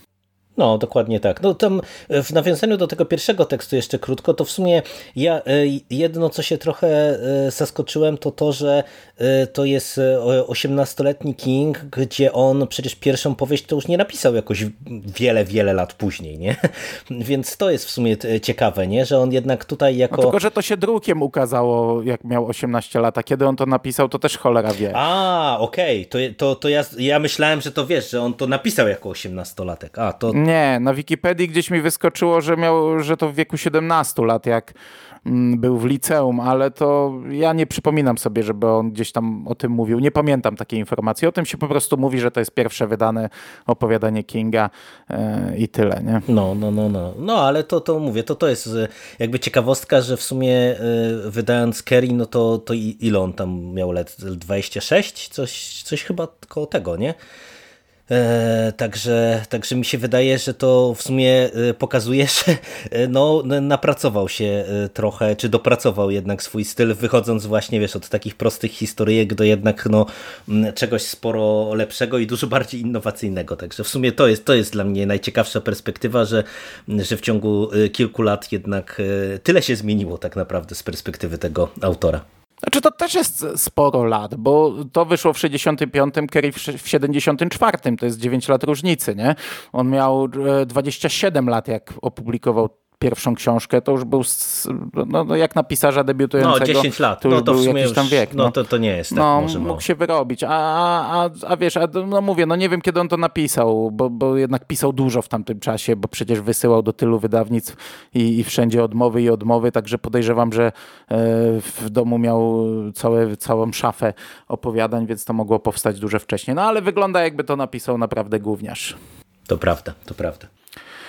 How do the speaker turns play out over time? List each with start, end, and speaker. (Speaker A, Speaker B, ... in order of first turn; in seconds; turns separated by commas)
Speaker A: 0.6-20.4, Speaker B: 20.1-25.0, Speaker A: 24.9-30.4, Speaker B: 30.3-34.7, Speaker B: 35.2-46.2, Speaker A: 46.3-57.1, Speaker A: 58.1-82.2, Speaker B: 82.6-98.5, Speaker A: 96.4-99.8, Speaker B: 99.1-119.0, Speaker A: 119.5-120.5